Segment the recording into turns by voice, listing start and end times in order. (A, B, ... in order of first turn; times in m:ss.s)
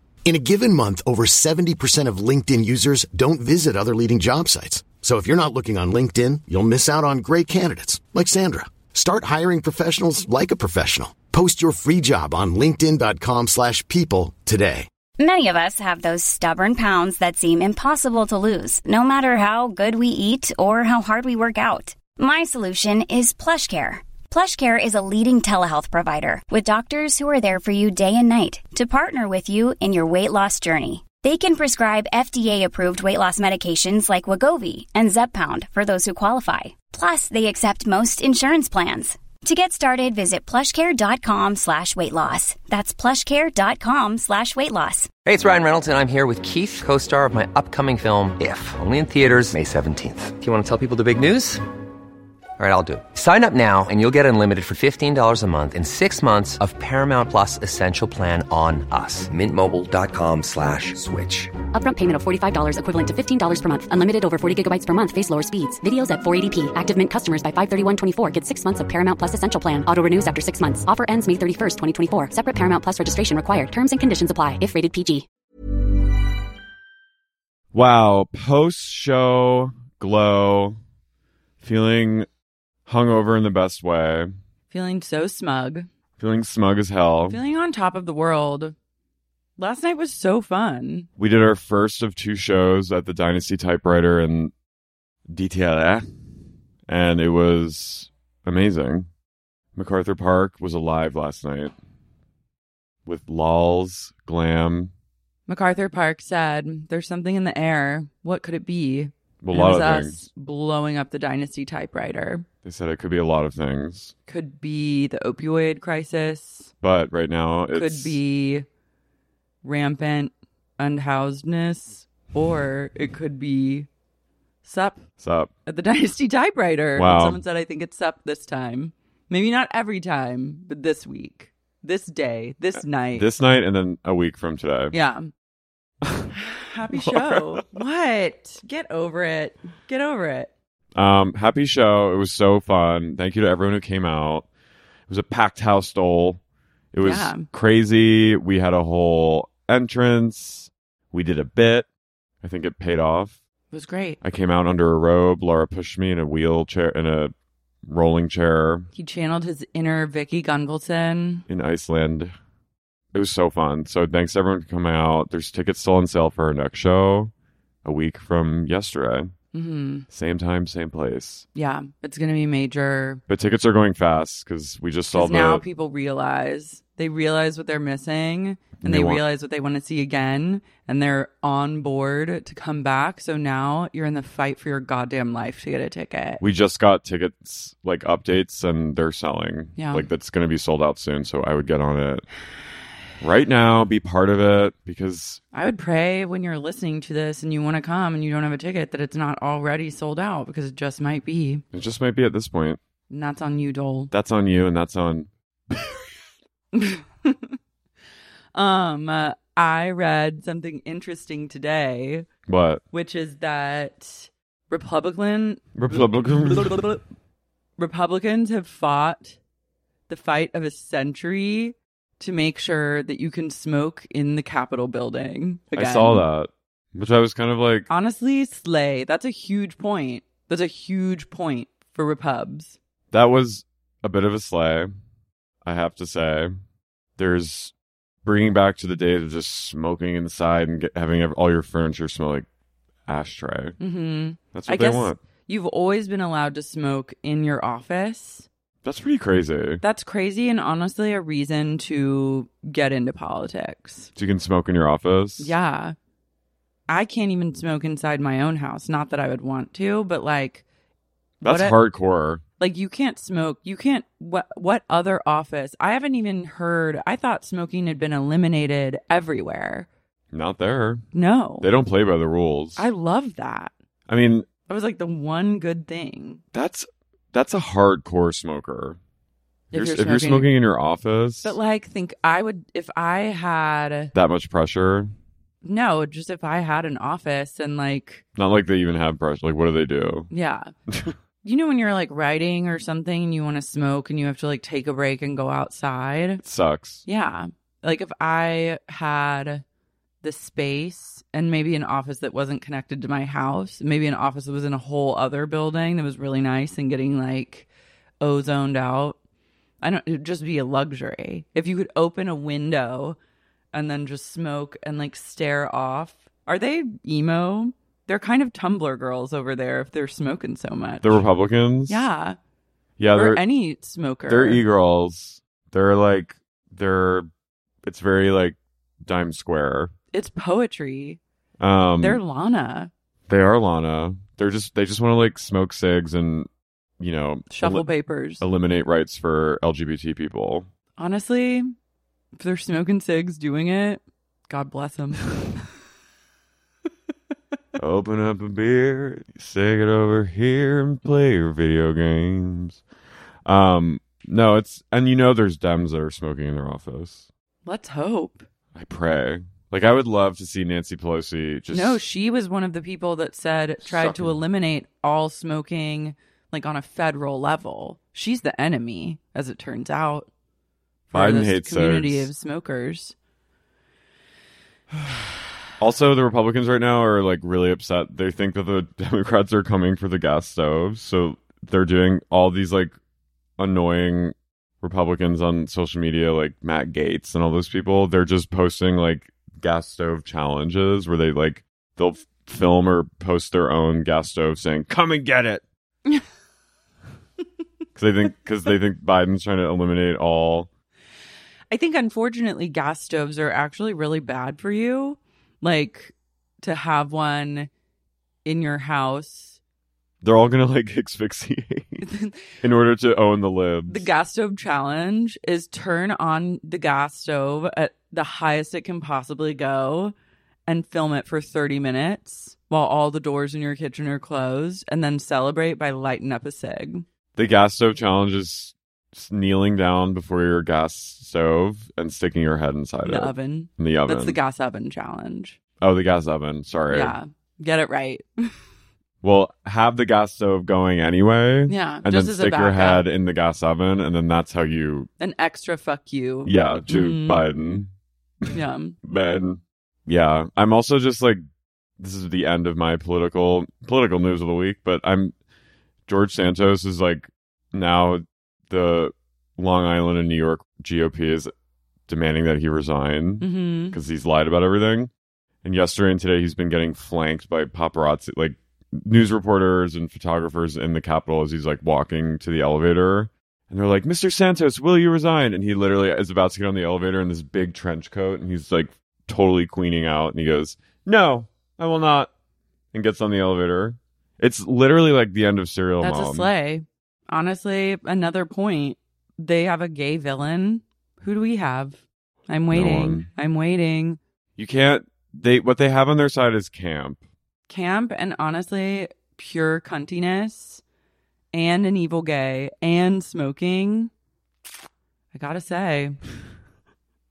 0:00.2-0:14.9 A
0:15.2-0:45.1 B
0:45.2-0:51.6 C
0:52.6-1:01.5 C
1:01.7-1:15.2 D
1:17.7-1:20.8 E
1:21.6-1:22.3 E
1:22.8-1:24.3 E
1:24.7-1:25.9 F
1:26.2-1:27.4 E
1:27.3-1:28.7 F
1:29.6-1:31.1 F
1:31.2-1:34.5 E
1:35.3-1:36.1 E
1:36.9-1:39.1 E
1:39.7-1:41.7 E
1:43.0-1:44.9 E
1:45.5-1:52.4 F
1:49.4-1:50.2 E
1:52.6-1:54.1 E
1:54.3-1:56.7 F
1:56.8-1:58.2 E
1:57.7-1:58.6 F
1:59.6-2:03.9 F
2:04.6-2:05.1 F
2:05.2-2:05.5 E
2:05.6-2:13.3 F
2:07.0-2:07.4 E
2:13.2-2:14.9 E
2:14.9-2:15.3 F
2:16.0-2:16.3 E
2:16.3-2:20.5 F
2:16.9-2:17.7 E
2:20.9-2:24.5 E
2:25.1-2:26.4 E
2:26.9-2:31.8 E
2:27.0-2:27.5 F
2:32.4-2:33.4 E
2:33.7-2:34.2 F
2:34.2-2:37.3 E
2:37.8-2:38.9 E
2:38.9-2:41.4 F
2:41.5-2:42.3 E
2:43.1-2:47.3 E
2:47.8-2:49.3 E
2:49.5-2:50.0 F
2:50.1-2:51.4 E
2:51.5-2:53.2 F
2:53.3-2:55.6 E
2:55.1-3:06.4 F
2:58.8-2:59.2 E
3:06.4-3:12.2 E
3:09.8-3:10.0 F
3:13.2-3:15.4 E
3:15.5-3:21.6 F
3:21.7-3:22.8 E
3:23.1-3:24.1 F
3:24.1-3:25.9 E
3:26.7-3:27.6 F
3:28.5-3:32.3 F
3:32.5-3:32.8 E
3:32.9-3:37.0 F
3:35.7-3:36.8 E
3:37.8-3:39.4 F
3:40.1-3:46.2 F
3:45.7-3:47.9 E
3:47.9-3:52.8 F
3:53.1-3:54.9 E
3:55.6-3:56.5 E
3:57.2-3:57.7 E
3:58.2-4:02.5 E
4:03.1-4:03.8 E
4:03.8-4:08.5 F
4:04.5-4:05.2 E
4:08.8-4:09.8 E
4:09.8-4:14.1 F
4:14.2-4:15.5 E
4:15.4-4:15.9 F
4:16.9-4:20.6 F
4:21.4-4:21.8 F
4:21.4-4:22.4 E
4:22.6-4:29.9 F
4:30.3-4:31.0 E
4:31.1-4:31.7 F
4:31.6-4:32.9 E
4:32.8-4:33.7 F
4:34.1-4:34.5 E
4:34.7-4:36.4 F
4:36.5-4:39.0 E
4:39.7-4:41.6 E
4:39.7-4:40.5 F
4:41.4-4:44.1 F
4:44.1-4:45.1 E
4:45.6-4:48.2 F
4:48.4-4:50.3 E
4:50.3-4:50.7 F
4:50.9-4:51.1 E
4:51.4-4:56.4 F
4:56.4-4:57.0 E
4:57.0-4:59.6 F
5:00.2-5:07.7 F
5:08.2-5:09.2 F
5:09.8-5:13.2 F
5:13.7-5:21.2 F
5:21.0-5:22.0 E
5:21.9-5:22.4 F
5:23.0-5:23.4 E
5:23.1-5:24.6 F
5:24.3-5:27.3 E
5:27.8-5:29.9 E
5:30.1-5:31.2 F
5:31.6-5:32.2 E
5:32.0-5:32.9 F
5:33.3-5:37.9 E
5:37.5-5:38.4 F
5:38.4-5:40.7 E
5:41.0-5:41.7 F
5:42.4-5:45.3 F
5:47.8-5:52.8 E
5:53.4-5:57.2 E
5:57.6-5:58.4 F
5:58.7-6:02.0 E
6:01.7-6:10.3 F
6:03.8-6:04.4 E
6:11.1-6:13.1 F
6:11.1-6:12.3 E
6:14.9-6:15.2 E
6:15.8-6:22.9 E
6:23.6-6:35.6 E
6:38.0-6:40.7 E
6:41.7-6:47.7 F
6:48.4-6:49.6 F
6:50.2-6:52.0 E
6:52.0-6:52.3 F
6:52.6-6:54.1 E
6:53.9-7:00.1 F
7:00.7-7:07.0 F
7:07.3-7:14.4 E
7:13.0-7:15.6 F
7:15.8-7:17.2 E
7:16.9-7:18.5 F
7:19.2-7:25.1 E
7:21.7-7:23.0 F
7:25.2-7:27.5 F
7:26.4-7:27.9 E
7:28.4-7:31.4 E
7:28.5-7:29.0 F
7:32.0-7:35.3 E
7:36.1-7:41.5 E
7:42.1-7:45.1 E
7:43.4-7:44.0 F
7:45.6-8:02.3 E
8:02.9-8:06.5 E
8:06.0-8:14.2 F
8:12.7-8:13.3 E
8:14.6-8:17.2 E
8:17.7-8:20.8 F
8:21.5-8:24.1 F
8:25.3-8:26.2 F